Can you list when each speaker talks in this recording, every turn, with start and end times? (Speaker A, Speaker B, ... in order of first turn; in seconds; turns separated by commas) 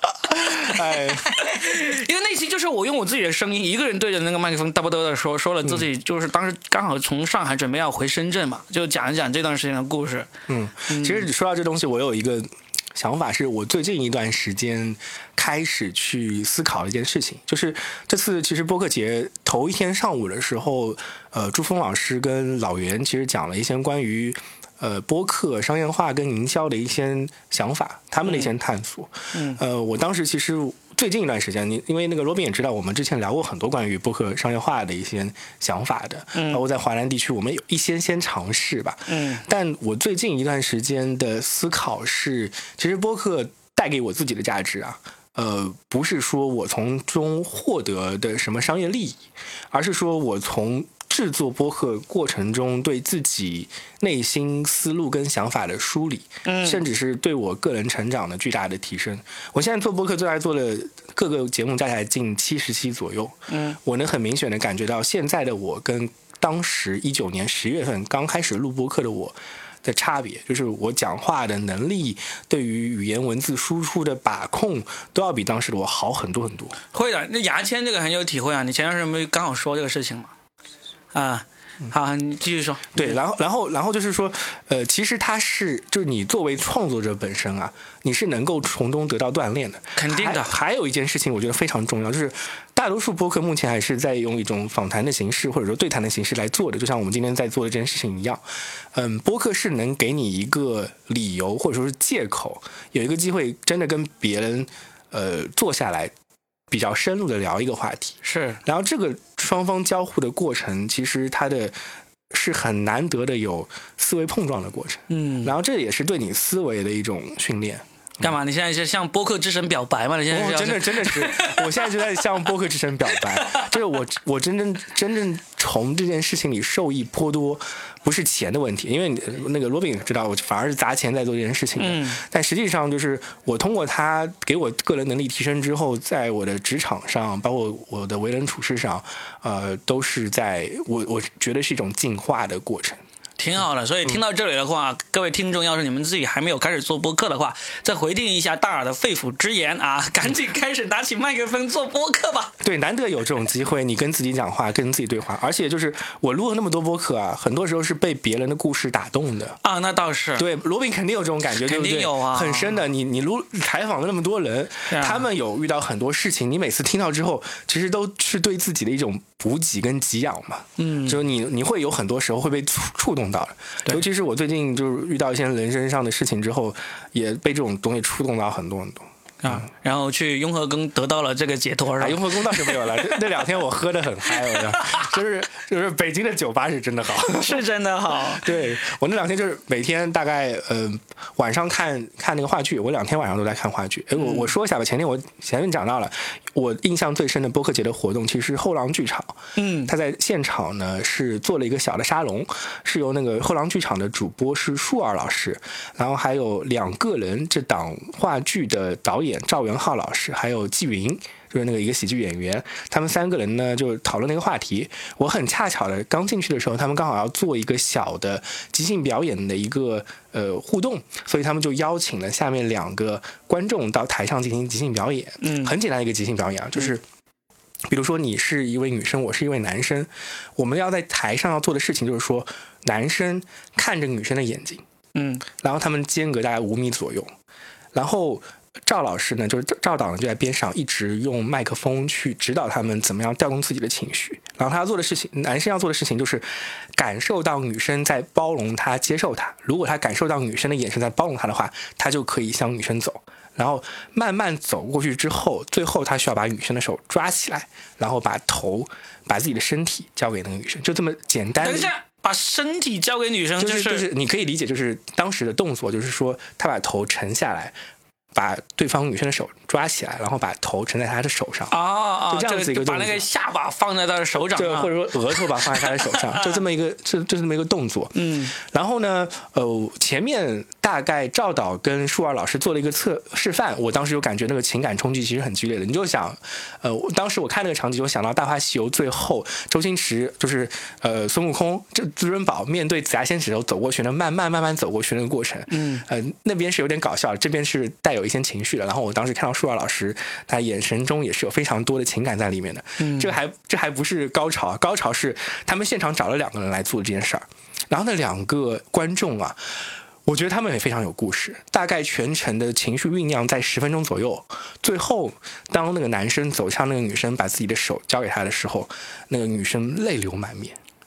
Speaker A: 0.3-1.3, Speaker B: 0.5-10.3, Speaker A: 10.5-76.8, Speaker B: 10.9-11.2, Speaker B: 29.3-29.6, Speaker B: 36.3-36.6, Speaker B: 39.1-39.4, Speaker B: 56.4-56.8, Speaker B: 63.5-63.8, Speaker B: 76.9-80.3, Speaker B: 81.1-83.2, Speaker A: 82.9-106.1, Speaker B: 90.0-90.5, Speaker A: 106.7-111.7, Speaker B: 108.2-108.6, Speaker A: 112.3-118.3, Speaker B: 115.1-115.5, Speaker B: 118.2-121.6, Speaker A: 120.3-143.0, Speaker B: 131.8-132.2, Speaker B: 143.4-152.5, Speaker A: 152.6-159.6, Speaker B: 159.6-160.5, Speaker A: 160.3-179.6, Speaker B: 161.6-162.8, Speaker B: 164.9-165.2, Speaker B: 170.8-171.2, Speaker B: 179.4-182.8, Speaker A: 182.0-187.6, Speaker B: 187.3-188.4, Speaker A: 188.3-227.0, Speaker B: 194.2-194.5, Speaker B: 199.6-199.9, Speaker B: 225.4-225.7, Speaker A: 227.9-234.8, Speaker B: 235.1-235.4, Speaker A: 235.6-237.3, Speaker A: 237.9-261.9, Speaker B: 261.6-264.1, Speaker A: 263.6-267.7, Speaker A: 268.3-271.8, Speaker B: 271.7-276.6, Speaker A: 272.3-273.2, Speaker A: 274.4-320.8, Speaker B: 278.1-278.5, Speaker B: 295.7-296.0, Speaker B: 303.0-303.3